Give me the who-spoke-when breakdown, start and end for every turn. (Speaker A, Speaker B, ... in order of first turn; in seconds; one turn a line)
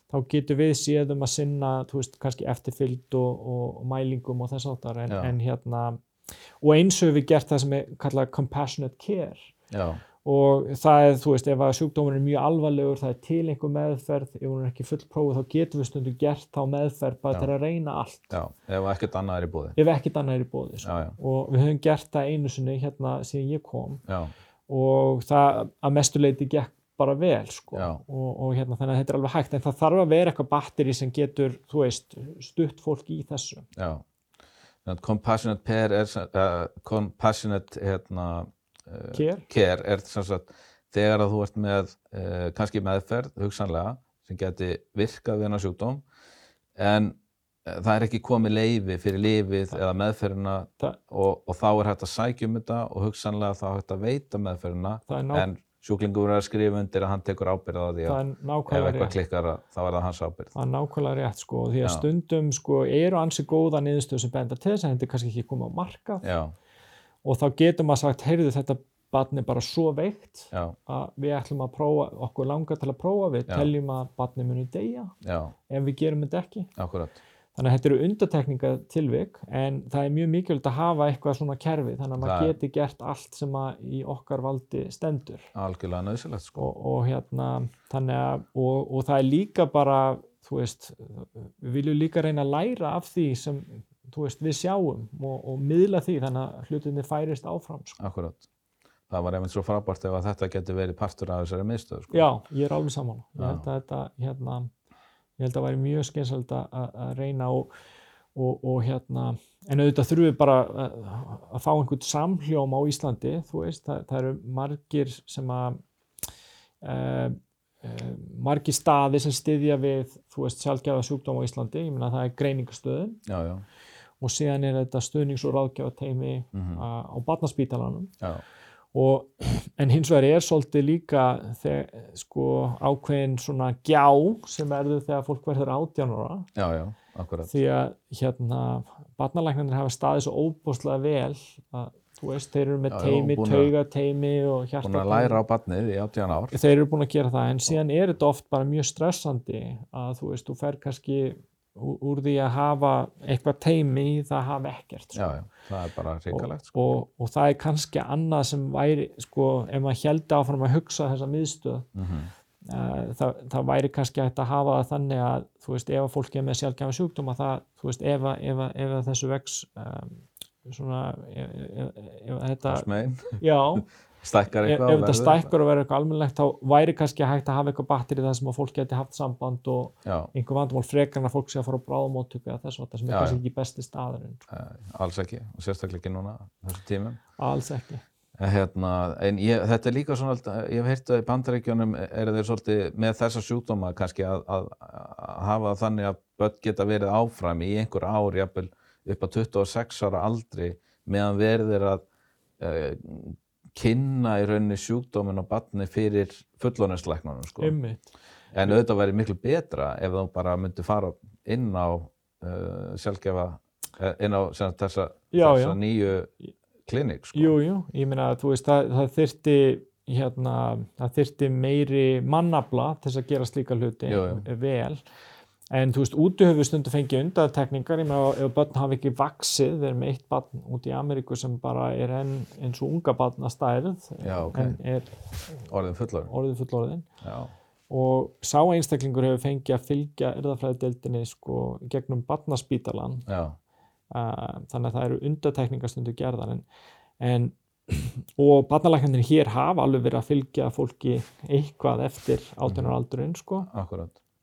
Speaker A: 0.1-6.0
Speaker B: 5.1-5.3
Speaker A: 6.6-9.5
Speaker B: 9.7-10.0
Speaker A: 10.2-18.3
Speaker B: 18.3-19.8
Speaker A: 19.8-24.0
Speaker B: 20.8-21.2
Speaker B: 24.1-24.3
Speaker A: 24.7-33.7
Speaker B: 27.7-28.0
Speaker B: 33.8-34.0
Speaker B: 34.8-46.0
Speaker A: 39.1-39.5
Speaker B: 46.8-60.5
Speaker A: 55.1-55.5
Speaker A: 58.0-59.2
Speaker A: 60.5-66.3
Speaker B: 66.2-66.5
Speaker A: 67.2-75.1
Speaker B: 75.2-75.5
Speaker A: 75.7-76.7
Speaker B: 76.8-77.2
Speaker A: 77.5-85.5
Speaker B: 82.2-82.5
Speaker B: 85.5-86.7
Speaker A: 86.6-98.0
Speaker B: 98.0-98.5
Speaker B: 99.1-102.3
Speaker A: 102.1-104.7
Speaker B: 103.4-103.6
Speaker A: 105.4-107.7
Speaker A: 108.3-115.8
Speaker A: 116.8-123.2
Speaker B: 123.2-123.6
Speaker A: 124.2-128.1
Speaker B: 126.5-126.8
Speaker A: 128.9-136.5
Speaker B: 136.6-137.5
Speaker A: 137.4-145.4
Speaker B: 142.9-143.7
Speaker B: 144.8-146.5
Speaker A: 146.5-155.2
Speaker B: 155.1-156.8
Speaker A: 156.3-161.9
Speaker B: 161.9-162.3
Speaker A: 162.6-172.9
Speaker B: 172.7-173.4
Speaker A: 173.4-173.9
Speaker B: 174.2-175.5
Speaker A: 174.6-184.4
Speaker B: 180.0-180.3
Speaker B: 183.1-183.4
Speaker B: 184.5-187.2
Speaker A: 187.4-188.0
Speaker B: 188.4-202.0
Speaker B: 202.6-207.7
Speaker A: 207.6-208.1
Speaker B: 208.5-216.3
Speaker A: 215.3-215.8
Speaker B: 216.8-217.5
Speaker A: 217.3-225.0
Speaker B: 224.1-224.4
Speaker A: 225.7-235.2
Speaker B: 234.2-234.8
Speaker B: 235.7-236.3
Speaker A: 236.3-237.1
Speaker B: 237.2-237.5
Speaker A: 237.9-243.2
Speaker B: 243.3-243.6
Speaker A: 244.1-246.6
Speaker A: 247.2-253.7
Speaker B: 252.6-252.9
Speaker B: 253.6-254.2